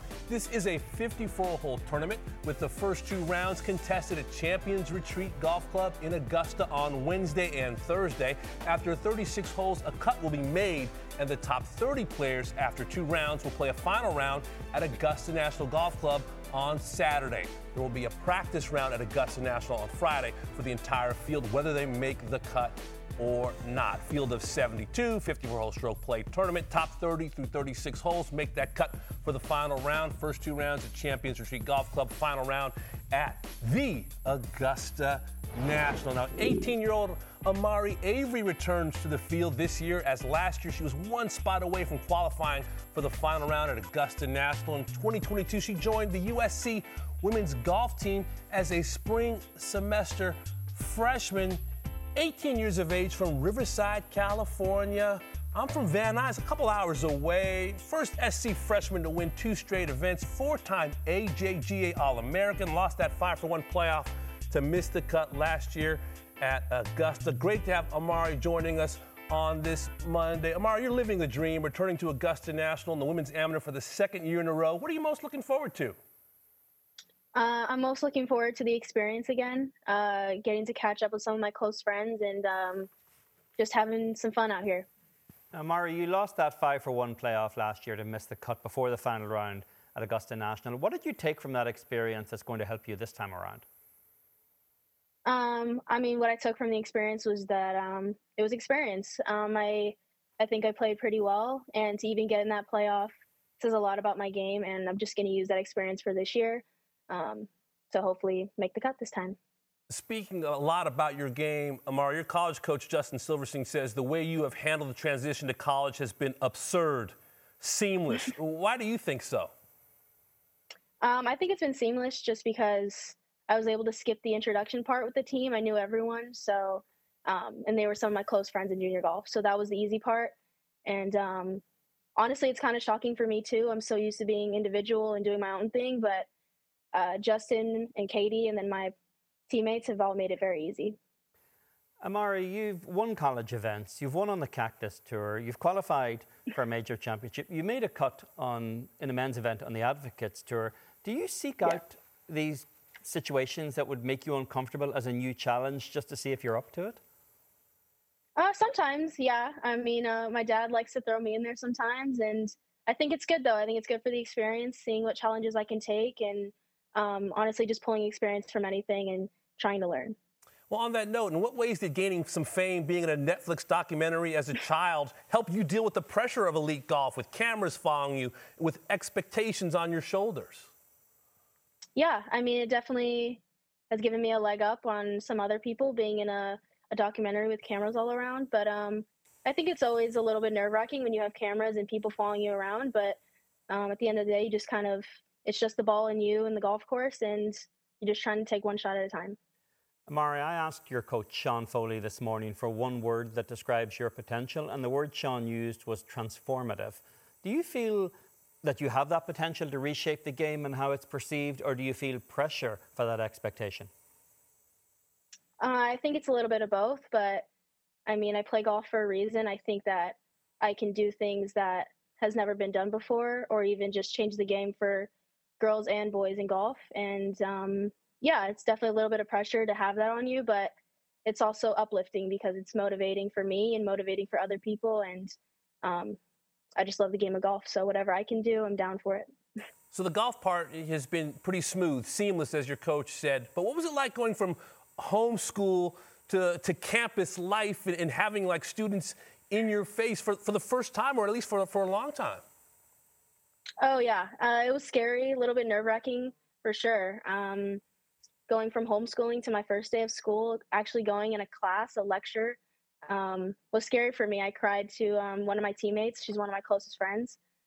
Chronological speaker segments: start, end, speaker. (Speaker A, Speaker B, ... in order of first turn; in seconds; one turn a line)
Speaker A: 0.3-51.6
Speaker A: 52.1-76.0
Speaker B: 77.3-82.9
Speaker B: 83.6-84.9
Speaker C: 85.5-93.6
Speaker B: 95.2-109.4
Speaker A: 109.9-119.5
Speaker B: 121.0-130.3
Speaker B: 130.8-131.6
Speaker B: 132.2-136.3
Speaker B: 136.9-138.9
Speaker B: 139.5-141.0
Speaker C: 142.0-157.0
Speaker B: 158.3-170.2
Speaker A: 170.7-180.7
Speaker B: 181.9-183.4
Speaker B: 183.9-199.4
Speaker C: 200.1-213.9
Speaker B: 215.6-217.5
Speaker B: 218.1-230.7
Speaker B: 231.2-236.2
Speaker B: 236.8-239.3
Speaker A: 239.9-252.4
Speaker B: 253.8-257.8
Speaker B: 258.5-267.4